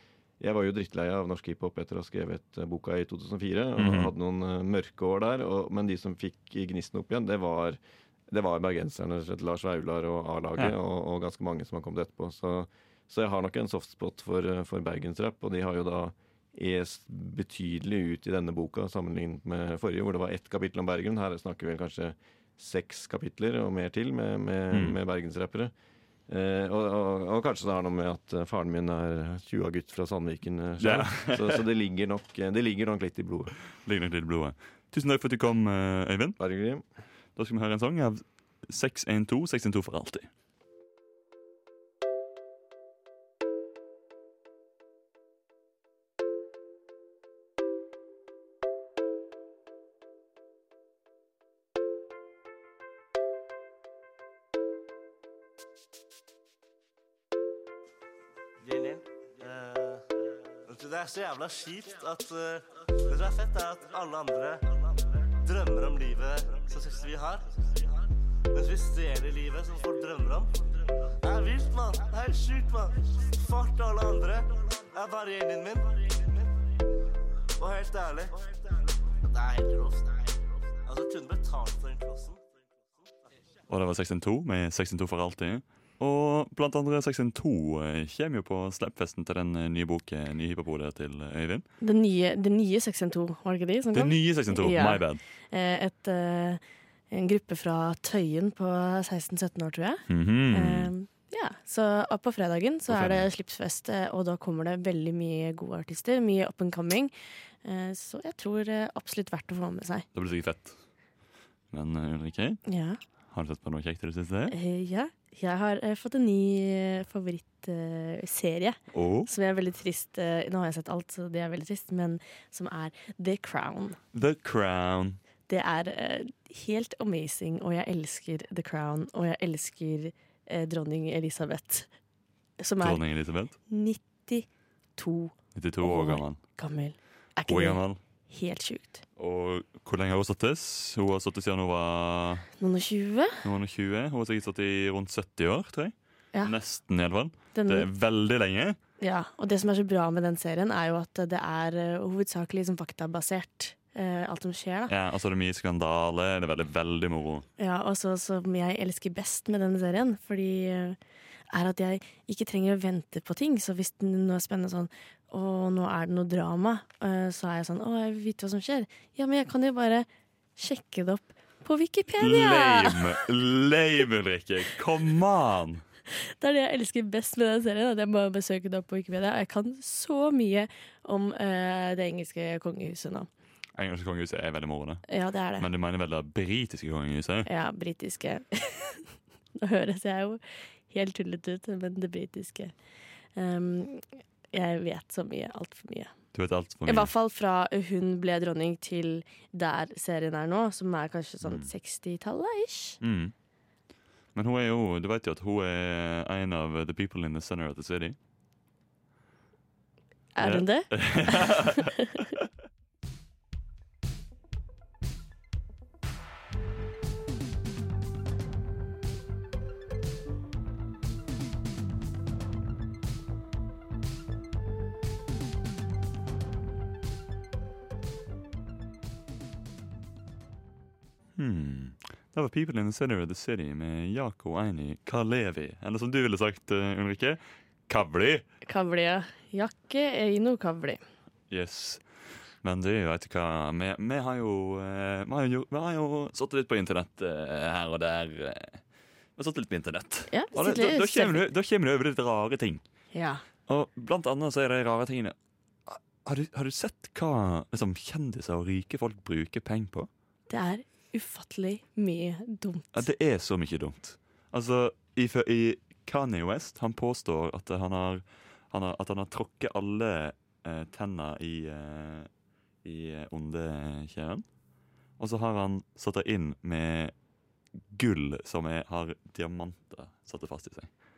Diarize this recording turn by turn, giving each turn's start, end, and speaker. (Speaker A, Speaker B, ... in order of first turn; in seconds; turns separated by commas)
Speaker A: 0.4-25.7, Speaker B: 3.8-4.1, Speaker B: 24.7-25.0, Speaker A: 26.3-33.5, Speaker B: 30.8-31.6, Speaker B: 33.8-36.4, Speaker A: 36.4-36.9, Speaker B: 37.4-40.3, Speaker C: 58.6-60.1, Speaker C: 60.6-64.7, Speaker C: 65.4-67.9, Speaker C: 68.5-70.6, Speaker C: 71.2-76.5, Speaker C: 77.6-82.5, Speaker B: 83.7-91.7, Speaker D: 91.8-107.1, Speaker B: 93.9-95.2, Speaker B: 100.1-100.9, Speaker B: 102.9-103.3, Speaker D: 107.6-110.1, Speaker B: 110.2-110.8, Speaker B: 111.7-112.6, Speaker D: 112.7-113.0, Speaker B: 113.3-114.5, Speaker D: 114.5-124.0, Speaker B: 118.9-119.3, Speaker B: 124.1-125.2, Speaker D: 125.5-131.9, Speaker D: 132.6-133.0, Speaker B: 132.8-133.6, Speaker D: 133.7-139.0, Speaker B: 135.6-136.4, Speaker B: 137.5-138.0, Speaker B: 139.2-142.5, Speaker D: 142.6-143.4, Speaker B: 143.4-148.8, Speaker D: 147.5-147.9, Speaker D: 149.0-154.9, Speaker B: 154.9-157.5, Speaker D: 157.6-161.0, Speaker D: 161.5-173.1, Speaker B: 172.2-175.8, Speaker D: 176.4-183.3, Speaker B: 183.8-187.5, Speaker D: 185.1-185.7, Speaker D: 187.5-192.8, Speaker D: 193.3-196.1, Speaker B: 196.3-197.1, Speaker D: 196.9-203.0, Speaker B: 201.4-201.7, Speaker B: 203.0-203.3, Speaker B: 204.3-208.2, Speaker D: 210.4-211.6, Speaker B: 210.4-211.8, Speaker B: 231.4-238.4, Speaker D: 238.7-241.0, Speaker B: 241.5-242.1, Speaker B: 242.6-248.8, Speaker B: 249.4-252.8, Speaker D: 250.3-251.4, Speaker D: 253.1-253.4, Speaker B: 253.7-255.3, Speaker B: 255.9-260.1, Speaker D: 260.5-263.1, Speaker B: 262.9-272.3, Speaker B: 272.8-274.5, Speaker B: 275.2-277.1, Speaker B: 277.9-280.9